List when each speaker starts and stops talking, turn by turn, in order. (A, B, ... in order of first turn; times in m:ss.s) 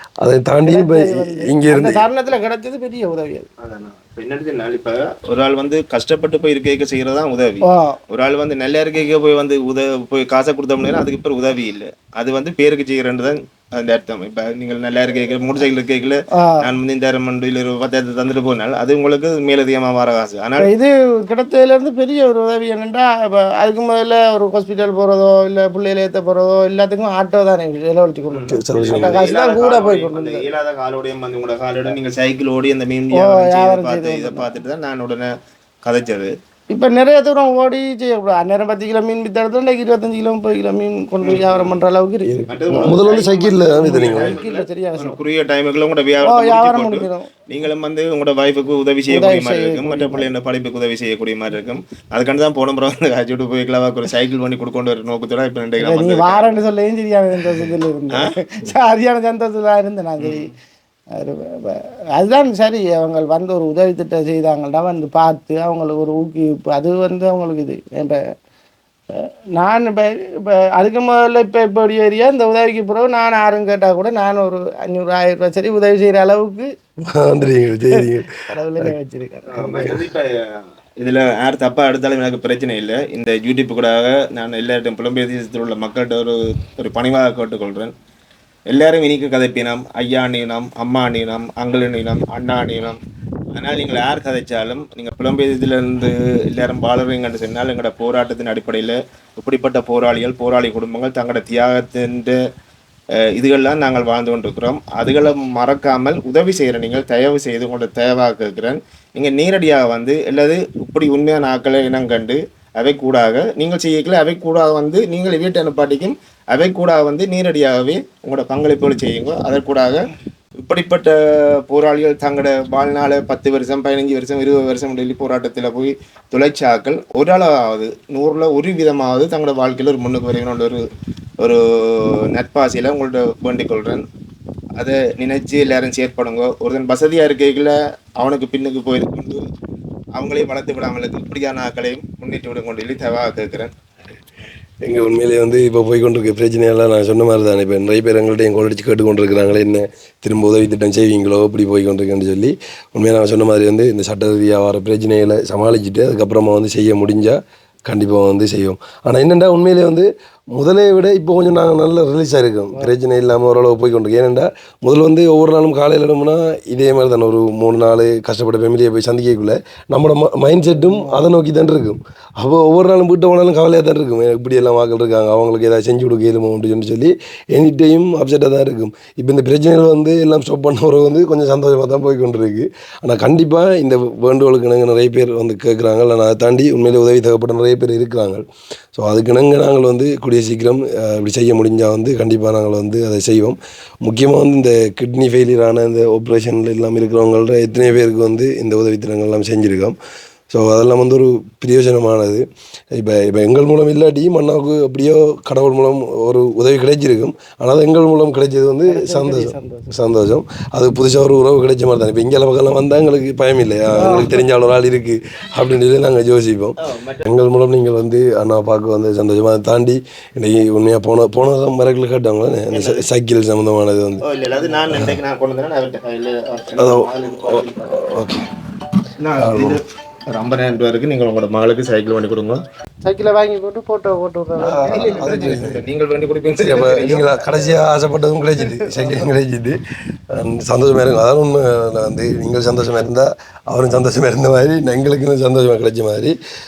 0:00.2-0:02.0 A
0:00.6-0:03.5 B
0:03.6-0:20.7 C
0:07.6-0:08.0 B
0:16.3-0:16.7 B
0:20.6-0:30.4 B
0:28.3-0:35.3 C
0:28.5-0:29.3 A
0:33.1-0:34.5 B
0:35.8-0:36.3 C
0:36.7-0:42.3 B
0:41.2-0:41.6 C
0:42.2-0:44.4 A
0:42.5-0:56.6 C
0:43.7-0:45.2 B
0:46.2-0:47.3 B
0:49.1-0:50.3 B
0:55.8-1:00.5 B
1:00.2-1:00.5 C
1:01.1-1:08.2 B
1:09.1-1:16.7 B
1:17.0-1:18.9 A
1:17.9-1:20.0 B
1:19.5-1:27.9 C
1:19.6-1:19.9 A
1:28.7-1:33.0 C
1:33.5-1:42.4 C
1:43.2-2:00.1 C
2:00.6-2:10.8 C
2:11.4-2:14.0 C
2:14.8-2:19.4 C
2:20.1-2:23.7 C
2:24.8-3:08.4 A
2:50.6-2:51.3 B
3:09.0-3:20.0 A
3:20.5-3:22.4 A
3:22.9-3:44.2 A
3:28.9-3:29.9 B
3:33.9-3:34.4 B
3:36.8-3:37.3 C
3:42.7-3:43.1 C
3:44.2-3:47.9 C
3:44.9-3:45.2 A
3:46.8-3:48.4 A
3:49.2-3:52.6 C
3:49.4-3:49.8 A
3:53.0-3:55.6 B
3:54.6-3:55.8 A
3:54.9-3:57.4 C
3:56.6-3:59.8 A
3:58.6-3:59.2 B
4:00.3-4:06.4 A